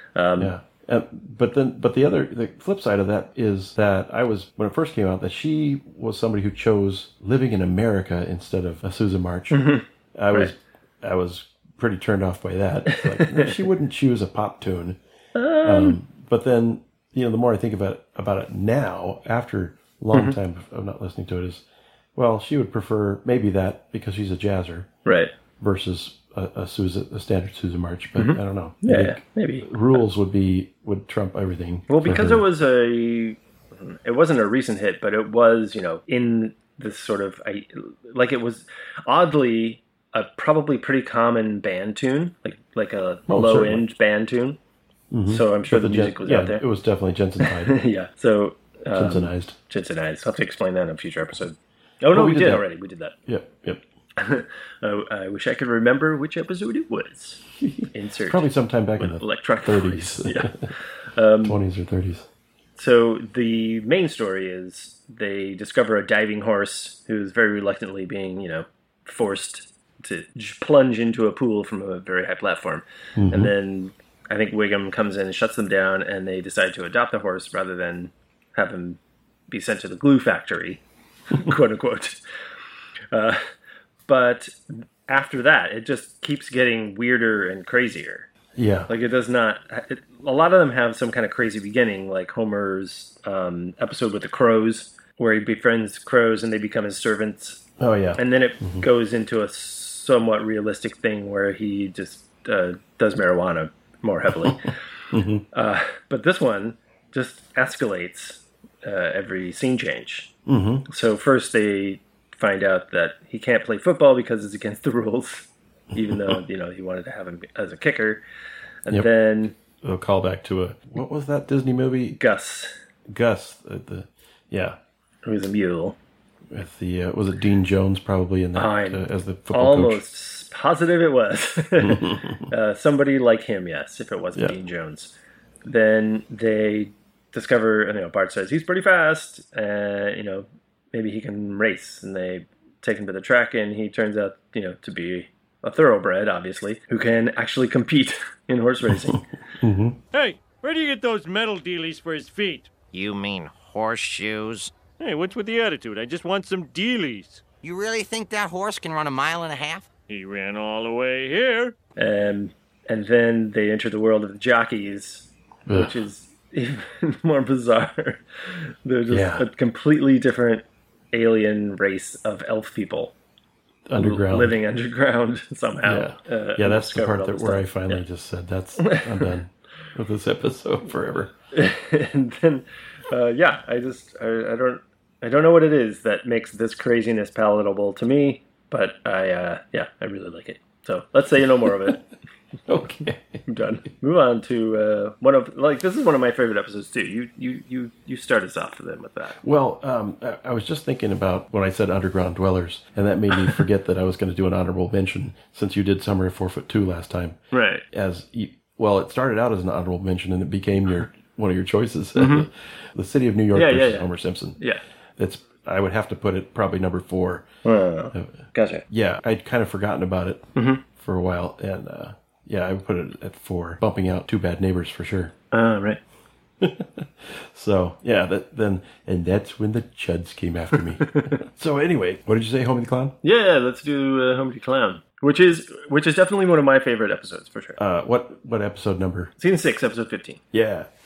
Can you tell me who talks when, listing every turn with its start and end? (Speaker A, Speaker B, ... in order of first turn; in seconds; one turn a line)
Speaker A: 0.1-0.5
Speaker B: 0.4-15.0
Speaker A: 9.5-10.5
Speaker A: 12.9-13.5
Speaker A: 15.3-16.0
Speaker B: 15.6-21.6
Speaker B: 22.1-24.9
Speaker A: 25.0-25.3
Speaker B: 25.6-32.4
Speaker A: 28.1-29.7
Speaker A: 31.9-44.6
Speaker B: 43.3-43.8
Speaker B: 45.1-47.7
Speaker A: 45.3-46.6
Speaker A: 47.4-53.1
Speaker B: 48.9-49.5
Speaker B: 52.1-52.6
Speaker B: 53.2-53.8
Speaker A: 54.2-61.6
Speaker B: 57.6-60.7
Speaker B: 61.4-62.2
Speaker A: 62.8-79.0
Speaker B: 73.2-73.5
Speaker A: 79.5-82.2
Speaker A: 83.1-83.4
Speaker A: 84.1-88.3
Speaker B: 88.5-88.9
Speaker A: 88.9-97.6
Speaker B: 97.8-98.9
Speaker A: 98.2-104.7
Speaker B: 105.1-105.4
Speaker A: 105.5-110.3
Speaker B: 110.5-110.8
Speaker A: 110.9-118.2
Speaker A: 118.8-119.5
Speaker B: 119.8-122.2
Speaker A: 122.2-122.7
Speaker B: 123.1-124.8
Speaker A: 125.2-126.0
Speaker B: 126.5-130.0
Speaker A: 128.6-135.1
Speaker B: 131.8-132.4
Speaker A: 135.6-149.2
Speaker B: 149.1-150.0
Speaker C: 150.1-152.7
Speaker D: 152.9-154.7
Speaker C: 155.0-157.4
Speaker D: 157.6-159.9
Speaker C: 160.1-161.7
Speaker A: 162.0-173.1
Speaker B: 165.7-165.9
Speaker B: 169.1-169.4
Speaker B: 173.9-174.6
Speaker A: 174.0-178.0
Speaker B: 175.8-181.3
Speaker A: 178.8-179.3
Speaker A: 181.5-192.0
Speaker B: 192.7-193.4
Speaker A: 193.4-199.4
Speaker B: 199.4-207.4
Speaker A: 207.5-207.8
Speaker B: 207.9-214.6
Speaker A: 212.2-212.4
Speaker A: 213.5-214.8
Speaker B: 215.2-217.4
Speaker A: 217.6-218.8
Speaker B: 218.9-225.3
Speaker A: 220.6-220.8
Speaker A: 225.5-226.0
Speaker B: 226.6-233.2
Speaker A: 231.0-231.4
Speaker A: 233.2-237.8
Speaker B: 237.8-239.3
Speaker A: 239.4-240.4
Speaker B: 240.5-240.9